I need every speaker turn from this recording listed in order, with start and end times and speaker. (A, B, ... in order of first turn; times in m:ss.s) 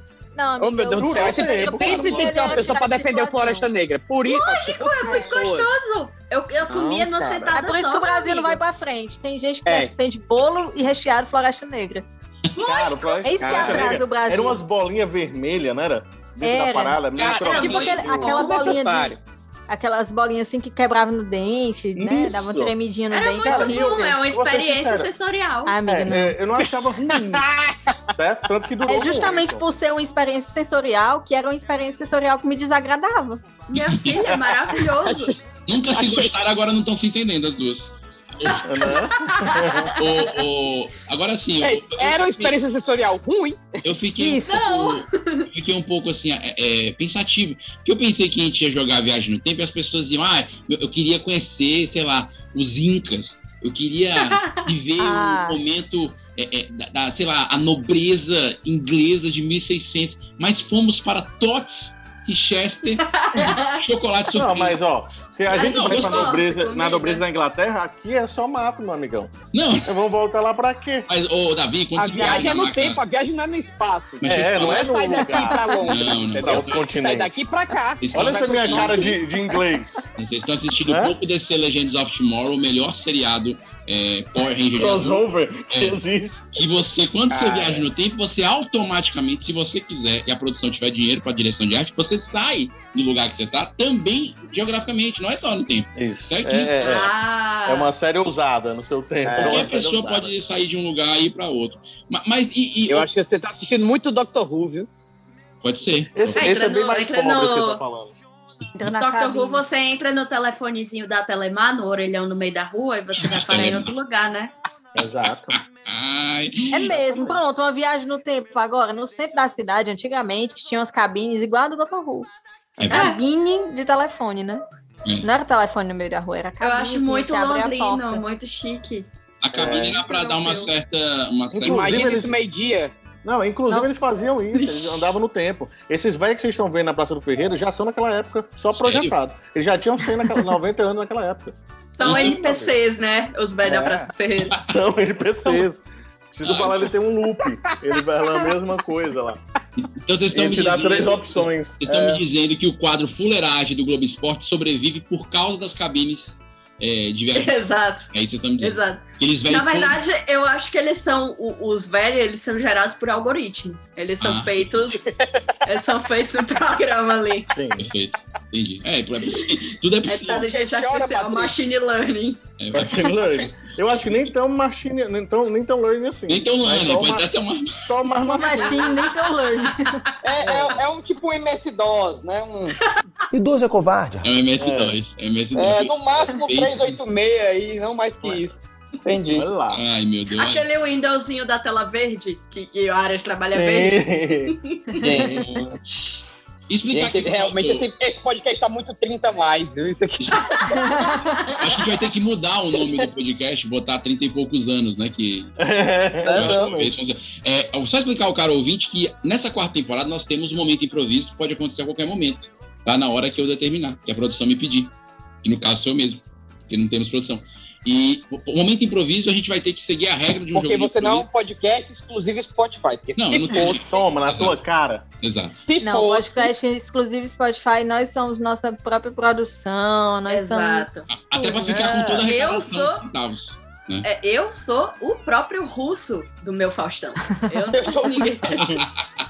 0:00.4-0:03.7 A
0:00.6-0:05.7 B
0:01.0-0:02.8 C
0:04.2-0:08.6 D
0:05.0-0:05.3 A
0:06.7-0:07.5 B
0:07.5-0:12.0 A
0:09.6-0:09.9 B
0:12.6-0:13.2 D
0:12.6-0:18.5 C
0:13.2-0:14.6 A
0:13.4-0:14.0 B
0:16.4-0:19.1 A
0:17.2-0:18.2 D
0:17.2-0:19.2 B
0:19.7-0:24.2 A
0:22.0-0:22.7 C
0:23.1-0:25.8 D
0:23.4-0:25.1 C
0:25.6-0:26.3 A
0:25.8-0:27.4 C
0:27.3-0:27.7 B
0:28.2-0:29.6 C
0:28.9-0:33.4 A
0:33.7-0:35.3 D
0:33.8-0:34.0 E
0:35.1-0:35.3 B
0:35.7-0:38.6 E
0:35.9-0:36.3 B
0:38.4-0:39.9 D
0:38.6-0:39.9 C
0:40.0-0:42.5 E
0:41.6-0:43.8 B
0:43.8-1:04.8 E
0:44.2-0:44.6 A
0:44.5-0:45.4 D
0:54.2-0:54.6 D
0:55.0-0:55.6 A
1:03.0-1:03.8 D
1:04.3-1:09.3 C
1:05.5-1:07.2 D
1:05.5-1:06.4 E
1:09.5-1:09.9 E
1:09.8-1:11.1 C
1:11.1-1:13.0 E
1:12.0-1:19.1 B
1:12.0-1:12.5 A
1:14.2-1:14.9 E
1:14.2-1:17.3 C
1:15.9-1:16.8 E
1:18.0-1:19.1 E
1:18.1-1:20.0 C
1:20.2-1:26.0 E
1:20.8-1:21.1 C
1:24.8-1:26.4 C
1:26.5-1:36.9 E
1:27.3-1:27.9 B
1:36.0-1:37.1 C
1:36.8-1:37.9 D
1:37.7-1:40.4 C
1:39.2-1:39.6 B
1:39.4-1:43.1 E
1:42.9-1:44.9 B
1:45.6-1:46.5 E
1:46.2-1:48.1 C
1:46.4-1:47.8 D
1:48.8-1:49.6 A
1:48.9-1:54.5 D
1:53.2-1:53.9 E
1:54.9-1:55.6 C
1:55.0-1:57.0 E
1:56.7-2:02.3 A
2:02.8-2:03.1 E
2:02.8-2:04.6 A
2:02.9-2:03.2 D
2:05.2-2:08.2 A
2:06.6-2:09.0 D
2:09.4-2:12.3 E
2:09.5-2:10.0 B
2:09.7-2:10.7 D
2:11.5-2:12.9 B
2:11.6-2:12.3 C
2:13.2-2:22.7 C
2:13.7-2:14.3 A
2:14.5-2:15.1 D
2:18.7-2:19.2 E
2:22.0-2:24.6 D
2:22.0-2:22.4 E
2:23.7-2:24.0 C
2:24.6-2:29.4 C
2:26.4-2:26.9 E
2:29.8-2:37.5 E
2:30.3-2:32.2 C
2:37.3-2:45.1 D
2:38.1-2:40.0 E
2:44.2-2:44.8 E
2:45.6-2:47.5 D
2:47.5-2:47.9 C
2:47.8-2:50.5 E
2:50.1-2:52.4 D
2:50.5-2:51.5 B
2:52.6-2:53.1 E
2:52.7-2:57.3 C
2:56.3-2:57.8 E
2:57.8-2:59.0 C
2:58.3-3:00.0 A
3:00.2-3:02.7 B
3:00.4-3:00.8 C
3:04.2-3:07.0 E
3:04.6-3:05.0 C
3:05.5-3:09.4 B
3:09.3-3:09.8 C
3:09.7-3:10.6 E
3:10.3-3:14.0 D
3:13.5-3:14.5 C
3:15.0-3:16.3 B
3:15.1-3:15.7 C
3:16.7-3:17.9 E
3:16.9-3:20.4 B
3:20.7-3:21.4 A
3:21.6-3:25.5 E
3:25.6-3:26.9 C
3:26.2-3:26.7 B
3:26.3-3:34.9 E
3:35.4-3:41.3 E
3:40.5-3:43.9 B
3:43.2-3:44.6 E
3:43.6-3:45.0 C
3:45.2-3:45.5 E
3:45.6-3:46.5 B
3:45.8-3:51.8 A
3:50.3-3:51.1 D
3:51.1-3:54.1 E
3:52.2-3:53.0 D
3:54.0-3:58.6 D
3:57.8-3:58.5 B
3:58.5-3:58.9 E